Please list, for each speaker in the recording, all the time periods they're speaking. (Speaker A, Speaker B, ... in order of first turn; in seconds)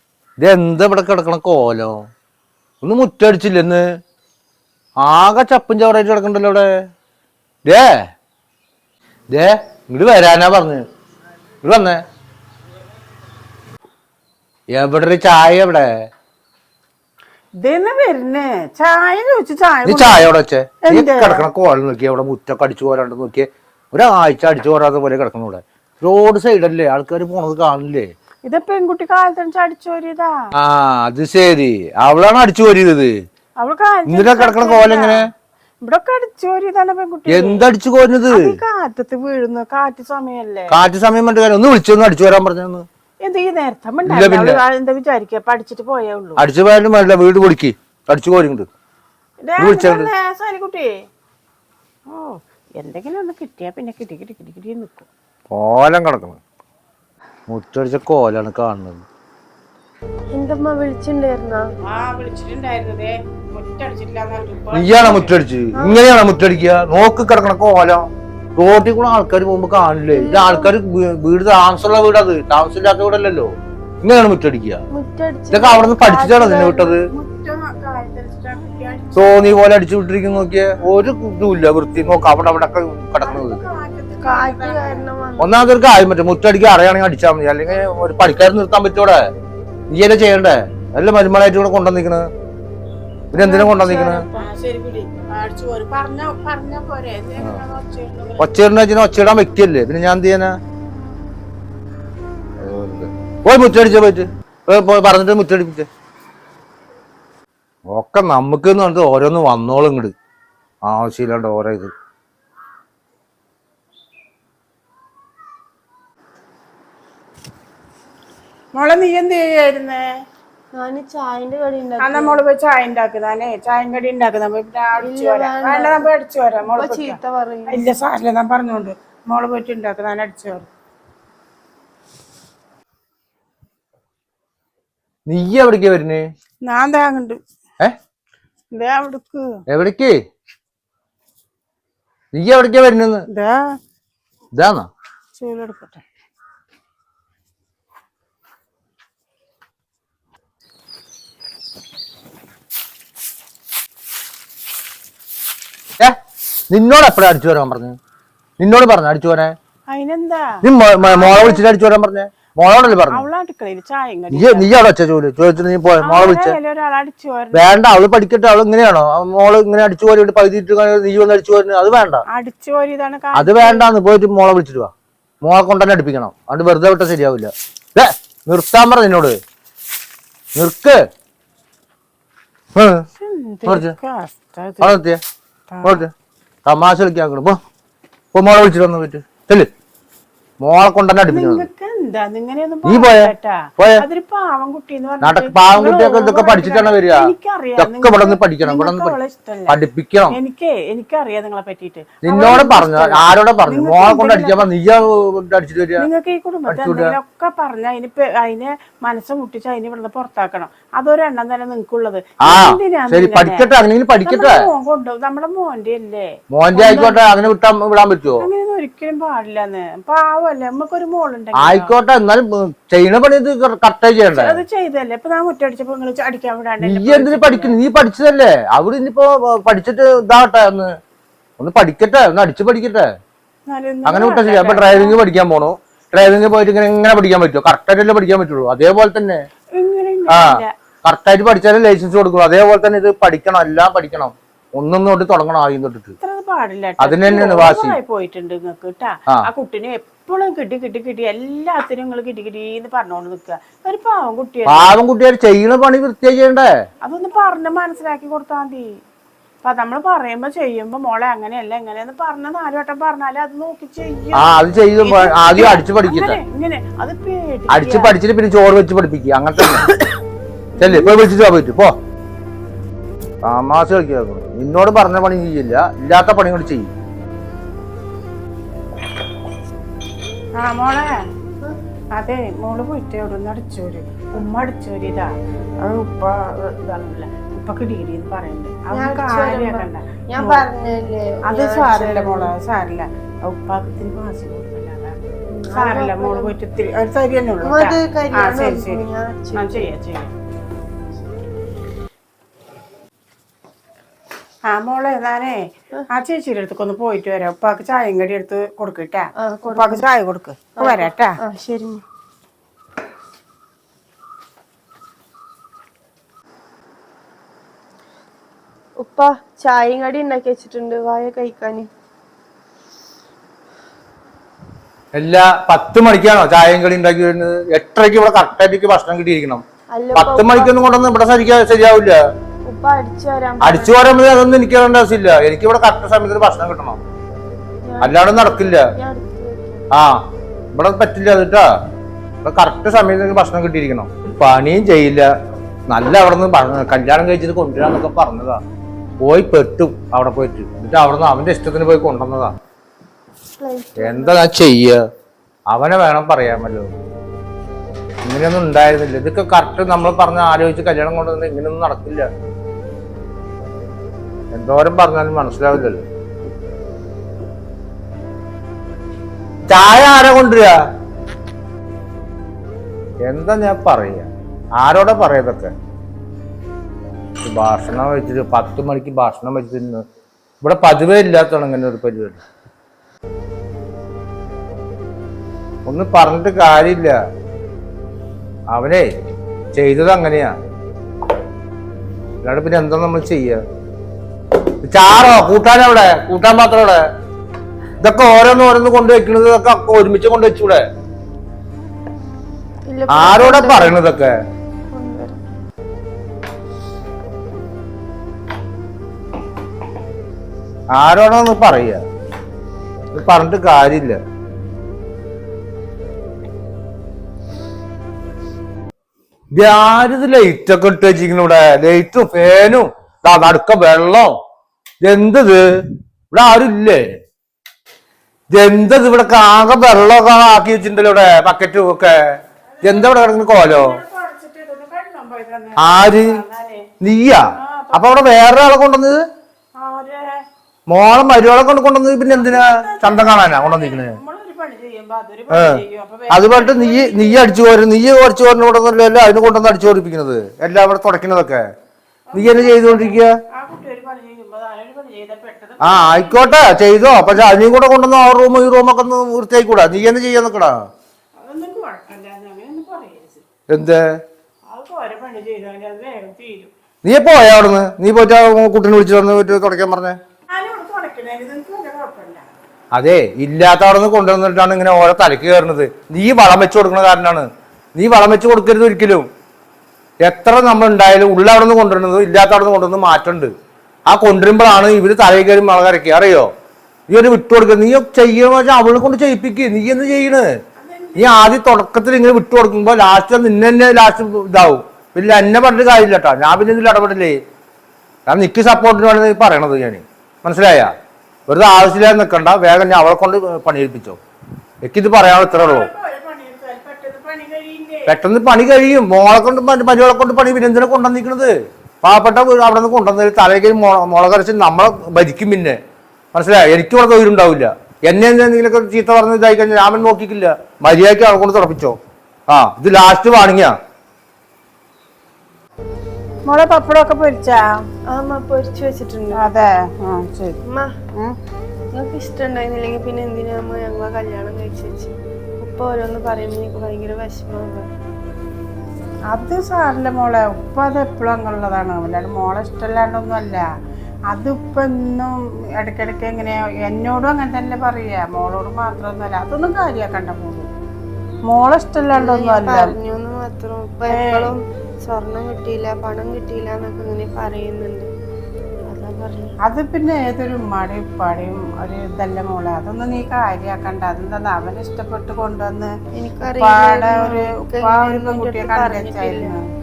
Speaker A: 0.4-2.0, 2.8-3.8, 5.0-6.7, 7.6-7.9, 9.3-10.8, 11.6-12.0, 14.7-15.9, 19.9-28.1, 30.5-33.2, 34.1-35.3, 37.3-38.5, 40.7-42.9, 44.1-44.6, 46.4-48.7, 49.6-50.1, 55.5-56.4, 57.5-59.0, 64.7-74.8, 75.5-77.0, 79.1-83.6, 85.4-89.2, 89.9-92.2, 93.3-94.2, 98.4-100.5, 102.6-105.9, 107.9-110.1, 110.8-111.9, 135.3-136.2, 139.7-140.2, 142.3-143.2, 144.5-144.9, 156.7-158.0, 158.6-159.5, 160.6-163.2, 164.3-166.5, 167.5-172.2, 173.3-174.9, 175.4-179.4, 180.6-181.0, 182.7-183.0, 183.7-183.9, 184.8-185.2, 185.8-186.1, 186.6-187.6, 188.3-189.7, 190.6-191.6, 192.8-194.0, 195.2-199.2, 199.7-200.4, 202.2-206.1, 206.7-207.2, 212.4-214.6, 216.5-218.5, 221.5-224.6, 226.8-231.0, 231.6-233.1, 234.0-239.4, 240.3-246.1, 247.0-247.9, 254.7-256.7, 264.3-266.4, 267.7-269.9, 270.8-271.9, 273.4-276.9, 325.1-329.6, 330.1-332.2, 333.6-337.0, 338.0-338.9, 339.9-340.2, 340.7-341.6, 342.4-345.3, 345.9-348.6, 349.2-352.5, 354.0-355.0, 355.7-356.9, 358.2-362.3, 364.5-366.0, 369.7-370.8, 373.2-375.7, 377.4-380.0, 380.6-382.4, 385.9-387.2, 388.7-389.1, 389.7-390.6, 392.4-393.6, 394.8-397.0, 398.0-400.8, 403.1-404.3, 410.9-412.0, 413.1-414.2, 419.5-424.3, 425.0-425.6, 426.3-427.2, 428.5-432.2, 432.8-434.0, 435.8-436.4, 437.0-437.4, 437.9-439.2, 440.9-444.2, 445.5-451.6, 452.3-453.3, 455.8-460.8, 463.7-464.0, 467.0-470.2, 472.9-479.3, 480.2-483.5, 484.1-486.5, 487.1-490.5, 491.1-497.4, 498.3-500.9, 501.5-504.2, 504.8-505.9, 508.1-515.8, 516.3-522.0, 522.5-523.7
Speaker B: 17.6-20.2, 20.8-21.4, 28.4-30.4, 33.6-35.3, 35.8-37.6, 38.3-40.8, 43.2-46.4, 49.4-50.9, 52.1-55.1, 61.9-65.3, 77.1-79.6, 83.2-85.0, 94.3-98.5, 118.7-120.0, 122.0-127.2, 127.7-130.7, 136.6-137.4, 138.7-139.5, 143.3-143.7, 145.4-146.0, 159.9-161.6, 163.1-164.7, 166.0-167.7, 172.3-173.8, 183.2-185.0, 185.7-186.0, 191.3-199.7, 200.3-204.7, 206.0-213.7, 214.2-217.3, 218.4-221.9, 224.3-227.8, 233.7-235.2, 239.8-240.7, 246.2-254.9, 257.0-258.9, 259.6-268.1, 270.8-271.1, 280.6-281.1, 282.1-290.7, 291.5-299.0, 299.6-300.3, 304.7-311.4, 432.8-436.9, 437.6-438.2, 439.8-440.4, 442.3-447.5, 452.3-456.5, 461.4-463.4, 464.7-466.7, 470.5-472.4, 490.8-491.5, 505.5-508.1, 526.5-527.8, 529.3-530.6, 539.3-543.6, 544.3-550.7, 551.5-552.9, 554.1-554.5, 559.6-565.9, 566.6-569.6
Speaker C: 60.3-61.7, 65.7-66.0, 70.1-70.7, 74.9-77.0, 84.2-85.5, 93.3-94.4, 120.7-122.4, 125.0-126.0, 126.6-127.8, 288.9-292.5, 295.5-296.5, 297.6-299.9, 309.4-310.0, 310.8-312.0, 319.0-321.9, 329.9-330.8, 332.7-334.0, 337.8-339.9, 353.6-354.4, 402.9-404.0, 404.9-405.4, 528.1-529.4, 530.6-530.9, 531.9-537.9, 552.1-558.1, 558.9-559.5, 566.1-569.5